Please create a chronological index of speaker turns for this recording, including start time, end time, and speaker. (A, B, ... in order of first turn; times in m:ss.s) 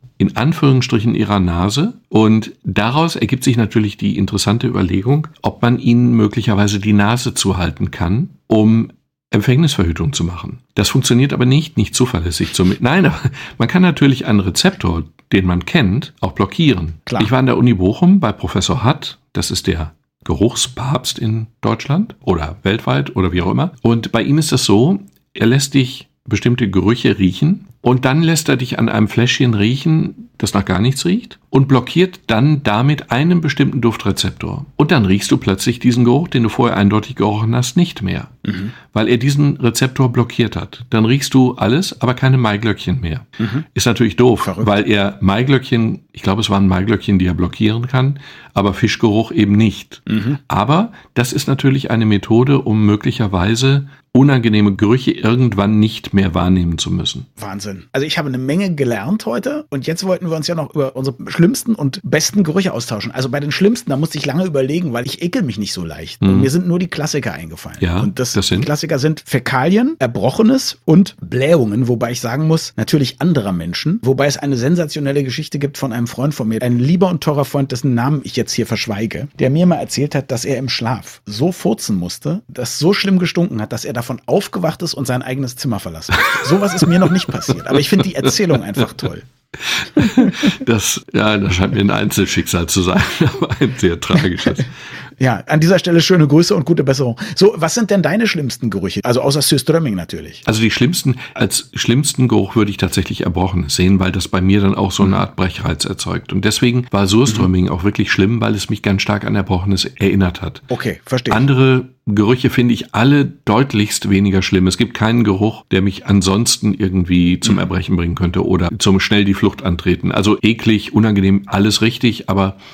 0:00.2-0:57.3 A
0:17.1-0:17.3 B
0:38.4-0:38.7 B
0:43.4-0:43.6 B
0:44.4-0:44.7 B
0:50.1-0:50.4 B
0:57.4-1:29.3 B
1:06.2-1:06.5 A
1:07.8-1:08.7 A
1:29.6-1:34.7 A
1:29.9-1:30.5 B
1:35.2-1:40.4 B
1:40.4-1:50.7 A
1:50.7-1:51.4 B
1:51.3-2:02.6 A